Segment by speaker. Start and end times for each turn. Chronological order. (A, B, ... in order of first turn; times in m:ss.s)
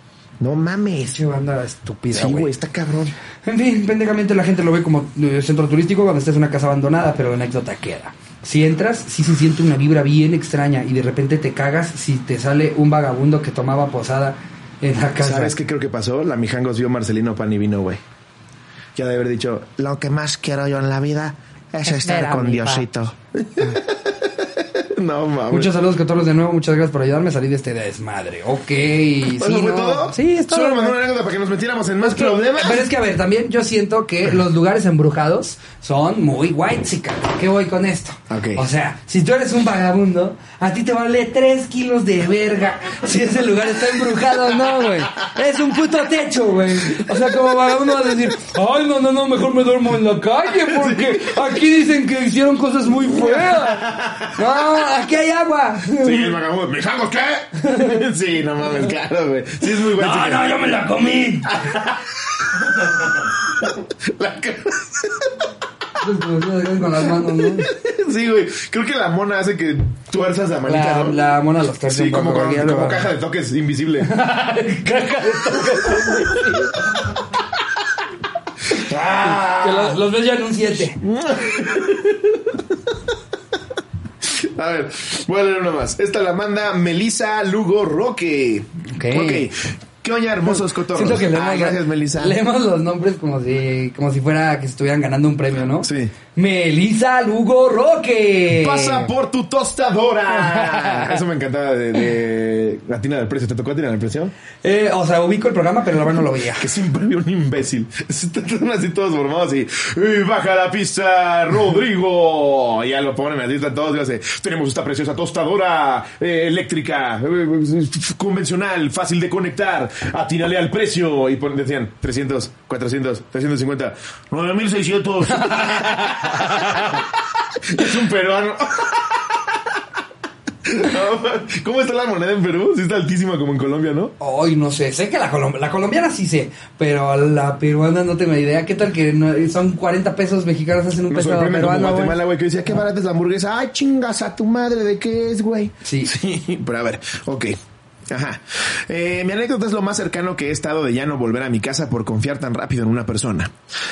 0:00.4-0:01.2 A
0:01.1-0:02.5 B
0:02.1-0:03.1 A
0:03.4-0:15.5 B
0:15.2-0:18.0 A
0:18.9-0:25.7 A
0:21.8-0:22.9 B
0:25.5-0:31.0 B
0:29.3-0:32.8 A
0:32.0-0:56.3 B
0:38.3-0:38.6 A
0:46.9-0:47.3 A
0:50.5-0:51.5 A
0:53.0-0:54.6 A
0:56.0-1:00.5 A
0:57.6-0:58.0 B
0:59.7-1:01.6 B
1:01.4-1:05.5 A
1:06.0-1:07.7 B
1:07.0-1:11.2 A
1:10.6-1:13.1 B
1:11.9-1:14.1 A
1:14.0-1:17.1 B
1:15.5-1:16.5 A
1:18.6-1:20.0 A
1:19.2-1:21.0 B
1:21.0-1:23.0 A
1:24.2-1:32.4 A
1:28.9-1:29.5 B
1:30.4-1:39.1 B
1:35.8-1:36.1 A
1:38.5-1:44.3 A
1:40.3-1:41.2 B
1:44.6-1:46.7 B
1:46.6-2:09.8 A
2:05.3-2:07.0 B
2:10.6-2:14.1 A
2:14.2-2:22.2 B
2:21.1-2:27.6 A
2:25.8-2:26.1 B
2:28.1-2:33.5 A